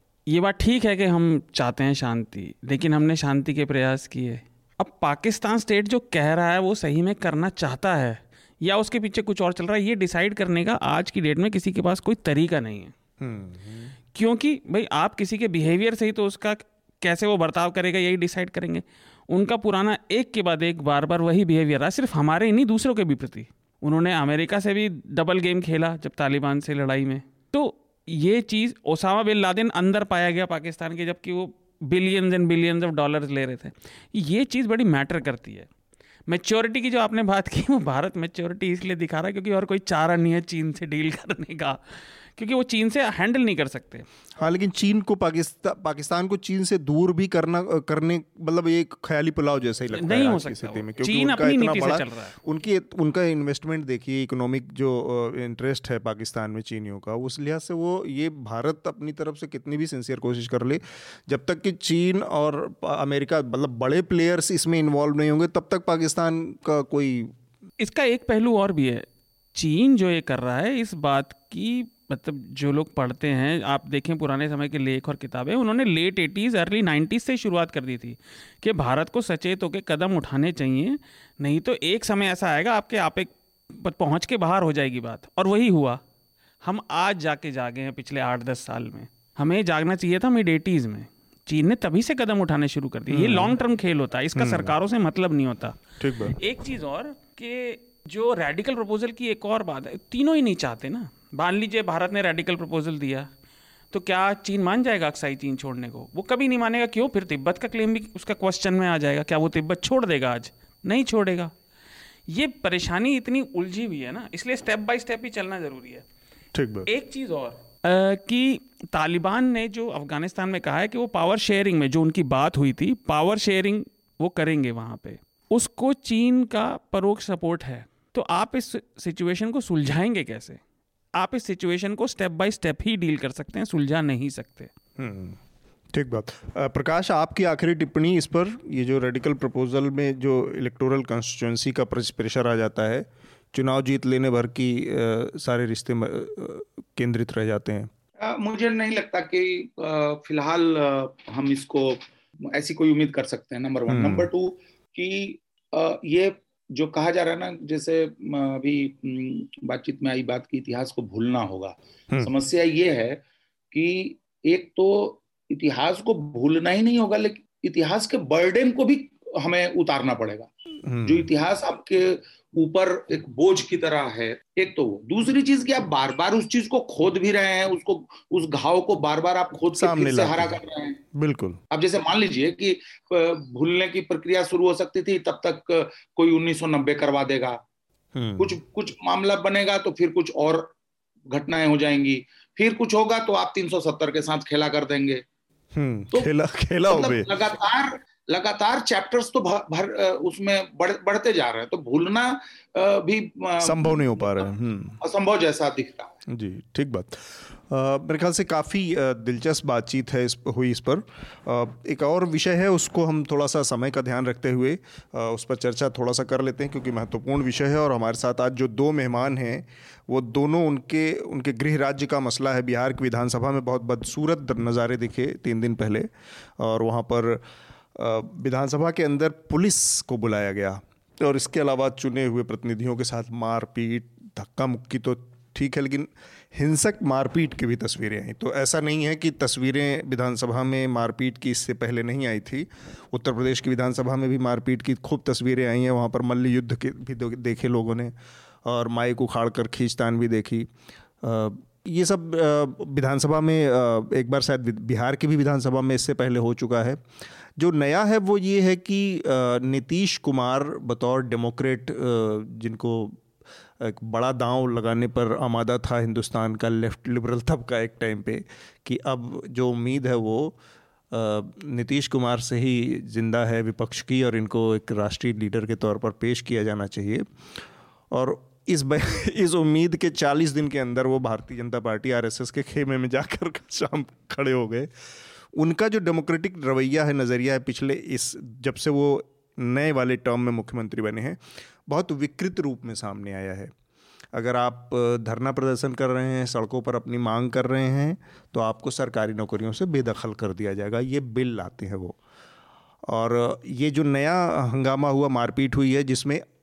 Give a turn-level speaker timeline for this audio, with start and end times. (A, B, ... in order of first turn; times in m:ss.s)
0:00.3-0:12.9 A
0:13.2-0:13.9 B
0:14.1-0:35.7 A
0:36.3-0:44.1 A
0:44.4-1:07.3 B
0:49.9-0:52.4 A
1:07.8-1:26.0 A
1:26.6-1:35.8 A
1:33.1-1:33.6 B
1:34.4-1:34.7 B
1:36.0-1:36.4 B
1:36.4-1:43.3 A
1:43.9-1:51.5 A
1:52.3-1:56.0 A
1:56.5-1:56.9 B
1:56.9-2:10.6 A
2:11.2-2:14.7 A
2:15.0-2:15.4 B
2:15.9-2:27.9 B
2:28.2-2:50.5 C
2:33.9-2:34.3 B
2:50.8-2:51.3 B
2:51.0-3:01.0 C
2:59.7-3:00.6 B
3:01.1-3:01.6 B
3:01.7-3:07.6 C
3:08.2-3:08.6 B
3:08.4-3:10.7 C
3:11.3-3:15.2 C
3:15.8-3:17.4 B
3:16.9-3:26.2 C
3:23.6-3:25.0 B
3:26.3-3:46.1 B
3:46.6-3:47.4 B
3:48.0-4:10.7 B
4:11.2-4:17.0 B
4:17.6-4:23.2 B
4:23.8-4:30.6 B
4:31.1-4:37.2 B
4:38.1-4:44.9 B
4:45.5-4:53.7 B
4:54.3-5:02.2 B
5:03.1-5:06.4 B